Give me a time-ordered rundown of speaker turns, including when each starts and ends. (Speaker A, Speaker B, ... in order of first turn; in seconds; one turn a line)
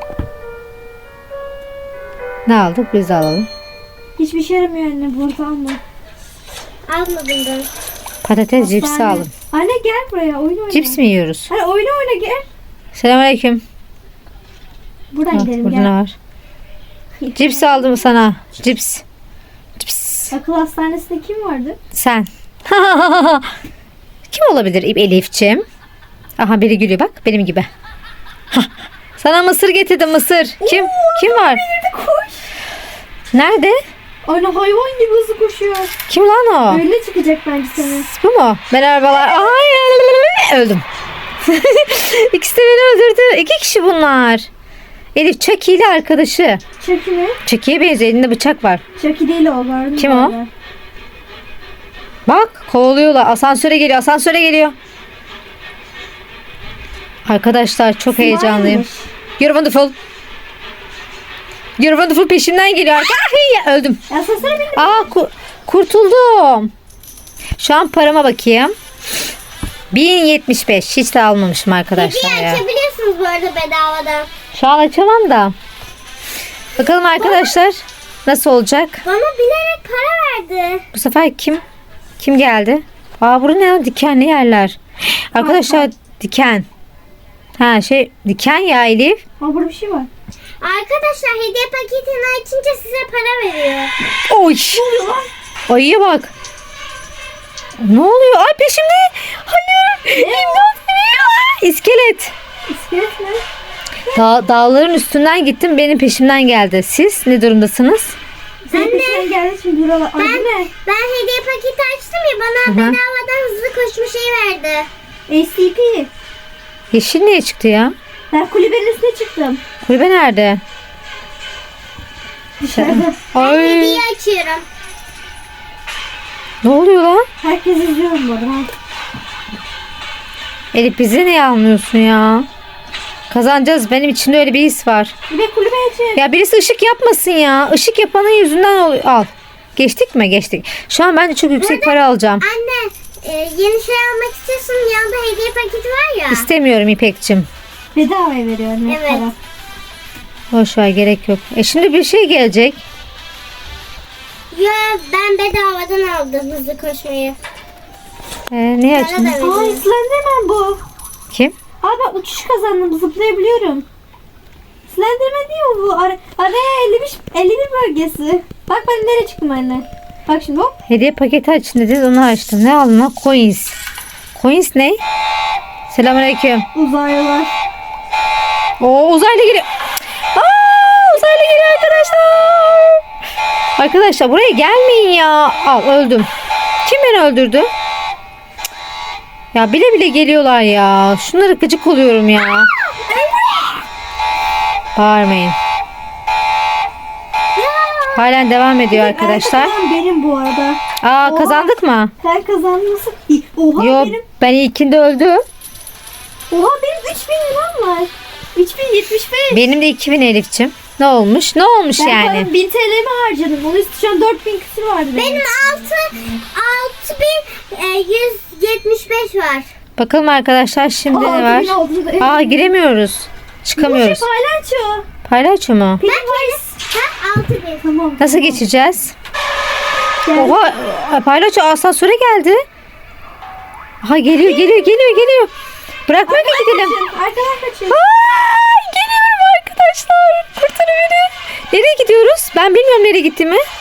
Speaker A: 2.5-3.5
Speaker B: 4.2-5.8
Speaker C: 6.9-7.7
Speaker A: 8.2-9.3
Speaker B: 8.6-12.5
Speaker A: 10.7-11.5
Speaker A: 12.9-13.6
Speaker B: 15.1-15.9
Speaker A: 15.3-16.2
Speaker B: 17.2-18.1
Speaker A: 17.4-19.0
Speaker A: 19.8-20.3
Speaker B: 20.3-21.8
Speaker A: 21.9-23.5
Speaker A: 24.3-25.6
Speaker A: 26.4-27.7
Speaker A: 28.5-31.6
Speaker B: 30.6-32.5
Speaker A: 33.3-33.8
Speaker B: 34.3-35.9
Speaker A: 36.1-36.8
Speaker B: 36.7-38.1
Speaker A: 37.8-40.9
Speaker B: 39.1-39.7
Speaker A: 41.5-44.5
Speaker A: 45.1-46.6
Speaker B: 46.8-47.4
Speaker A: 47.5-48.8
Speaker B: 49.0-50.5
Speaker A: 50.0-50.4
Speaker A: 52.3-54.8
Speaker A: 57.2-58.9
Speaker B: 58.1-59.1
Speaker A: 59.4-59.9
Speaker A: 61.8-64.0
Speaker B: 64.1-65.1
Speaker A: 64.8-66.7
Speaker A: 67.6-68.7
Speaker A: 69.9-72.6
Speaker C: 72.0-74.3
Speaker A: 74.5-75.5
Speaker A: 76.8-79.0
Speaker C: 77.1-77.5
Speaker C: 79.0-80.8
Speaker A: 80.9-81.6
Speaker A: 82.2-86.7
Speaker B: 85.4-85.9
Speaker A: 87.6-89.2
Speaker B: 89.4-90.1
Speaker C: 90.6-93.9
Speaker A: 94.3-94.8
Speaker B: 94.7-95.3
Speaker A: 95.7-96.3
Speaker A: 97.8-100.6
Speaker B: 100.1-101.2
Speaker A: 101.2-102.3
Speaker B: 102.7-103.4
Speaker A: 104.1-108.2
Speaker B: 108.7-110.7
Speaker C: 108.7-109.3
Speaker C: 110.2-114.9
Speaker A: 112.7-113.0
Speaker B: 115.3-116.1
Speaker A: 116.9-118.0
Speaker B: 118.3-119.6
Speaker A: 119.8-120.6
Speaker B: 122.6-123.2
Speaker A: 122.7-124.0
Speaker C: 123.4-124.7
Speaker A: 126.6-127.3
Speaker B: 127.4-128.7
Speaker A: 130.7-132.5
Speaker A: 133.3-135.1
Speaker B: 135.3-136.2
Speaker A: 136.2-142.4
Speaker C: 141.6-146.5
Speaker A: 146.3-147.5
Speaker B: 147.9-149.4
Speaker C: 148.9-149.3
Speaker A: 150.5-152.8
Speaker C: 154.5-157.4
Speaker A: 158.5-159.4
Speaker C: 158.9-159.8
Speaker B: 159.4-160.8
Speaker B: 161.8-163.8
Speaker B: 164.9-170.8
Speaker A: 170.9-173.8
Speaker A: 174.3-175.0
Speaker A: 175.9-176.7
Speaker B: 176.8-177.5
Speaker A: 178.8-179.7
Speaker A: 180.3-183.0
Speaker A: 183.8-186.3
Speaker A: 186.8-187.7
Speaker A: 189.5-192.7
Speaker B: 193.1-193.7
Speaker A: 195.0-195.6
Speaker C: 197.6-198.2
Speaker A: 198.2-199.7
Speaker B: 198.9-204.2
Speaker A: 201.0-202.1
Speaker A: 203.8-205.4
Speaker B: 206.5-209.7
Speaker A: 209.5-212.5
Speaker B: 212.0-215.6
Speaker C: 215.2-219.7
Speaker A: 220.0-224.3
Speaker B: 221.1-222.7
Speaker B: 223.8-225.1
Speaker A: 225.3-226.0
Speaker B: 226.0-226.8
Speaker C: 226.1-227.8
Speaker B: 227.8-228.6
Speaker A: 228.2-229.2
Speaker B: 230.2-230.6
Speaker A: 230.3-232.6
Speaker A: 234.0-235.5
Speaker A: 236.1-237.0
Speaker B: 236.3-238.0
Speaker A: 237.9-243.6